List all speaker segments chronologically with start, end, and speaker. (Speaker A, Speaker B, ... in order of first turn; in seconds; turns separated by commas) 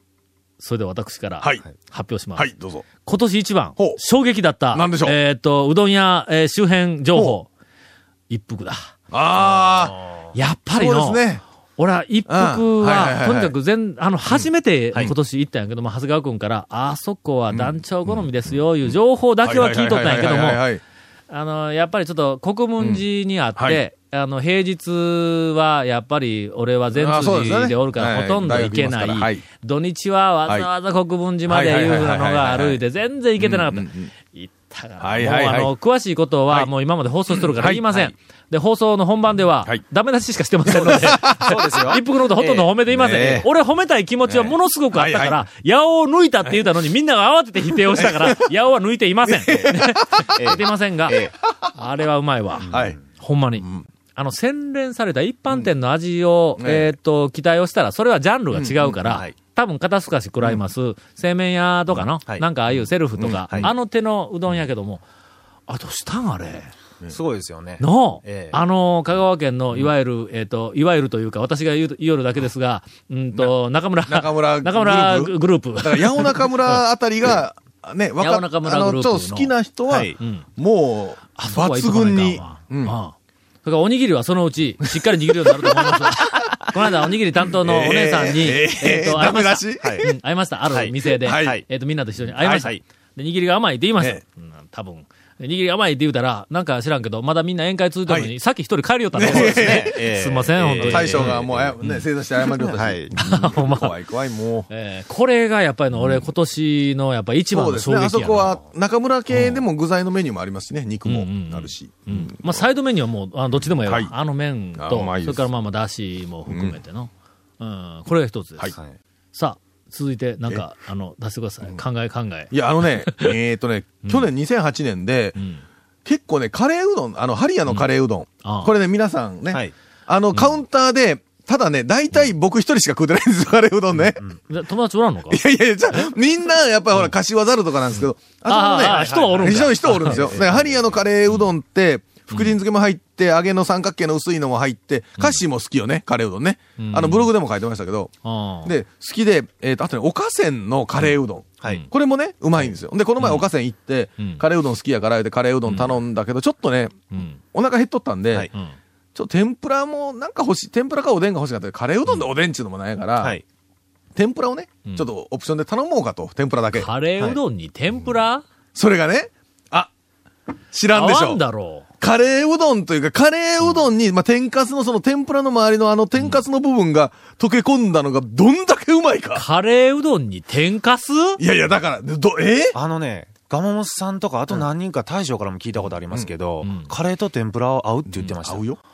Speaker A: 0.6-2.5, Speaker B: 2.4-2.9, Speaker A: 3.0-7.5, Speaker B: 4.7-5.1, Speaker A: 8.3-8.9, Speaker B: 9.1-10.0, Speaker A: 10.3-11.2, Speaker B: 10.7-11.4, Speaker A: 11.8-20.6, Speaker B: 12.3-13.5, Speaker B: 14.3-15.1, Speaker B: 19.4-20.8, Speaker A: 21.3-65.0, Speaker B: 26.9-29.4, Speaker B: 31.5-32.8, Speaker B: 33.4-34.1, Speaker B: 35.0-35.7, Speaker B: 37.3-38.1, Speaker B: 40.6-41.6, Speaker C: 41.2-43.3, Speaker B: 42.9-43.5, Speaker B: 44.3-45.4, Speaker B: 47.9-48.4, Speaker B: 49.3-50.3, Speaker C: 50.4-51.3, Speaker C: 52.6-53.0, Speaker B: 52.7-53.0, Speaker B: 56.6-56.9, Speaker B: 58.5-58.9, Speaker C: 59.0-59.4, Speaker B: 63.2-63.7, Speaker A: 65.7-66.7, Speaker C: 67.1-68.6, Speaker A: 67.8-76.8, Speaker B: 74.1-82.9, Speaker A: 78.2-79.5, Speaker C: 79.9-80.2, Speaker A: 80.2-80.4, Speaker A: 81.4-102.0, Speaker B: 85.5-86.1, Speaker B: 87.5-90.1, Speaker C: 89.8-90.1, Speaker C: 90.7-91.6, Speaker B: 91.2-91.6, Speaker C: 92.4-92.8, Speaker B: 99.2-100.0, Speaker C: 99.2-101.8, Speaker B: 100.8-104.7, Speaker C: 102.4-103.1, Speaker A: 103.1-103.9, Speaker A: 104.7-108.6, Speaker B: 107.5-112.6, Speaker A: 111.1-118.8, Speaker B: 113.9-114.1, Speaker B: 114.8-115.4, Speaker B: 116.5-116.8, Speaker A: 119.3-123.3, Speaker B: 122.5-125.4, Speaker A: 125.4-125.6, Speaker B: 126.0-134.2, Speaker A: 128.4-128.7, Speaker A: 134.4-135.4, Speaker B: 135.3-148.1, Speaker A: 138.5-140.2, Speaker C: 138.8-140.9, Speaker A: 142.3-142.6, Speaker A: 146.8-147.3, Speaker A: 148.2-148.7, Speaker B: 148.6-157.0, Speaker C: 151.6-151.9, Speaker A: 153.2-153.4, Speaker A: 155.7-155.9, Speaker A: 157.1-157.4, Speaker B: 157.5-158.5, Speaker B: 159.1-163.4, Speaker B: 164.2-166.9, Speaker A: 166.8-168.4, Speaker B: 168.8-169.9, Speaker B: 170.7-171.4, Speaker A: 170.9-171.9, Speaker B: 172.0-179.4, Speaker A: 179.3-181.4, Speaker B: 181.4-182.8, Speaker C: 182.7-188.6, Speaker A: 186.6-186.9, Speaker B: 188.1-188.8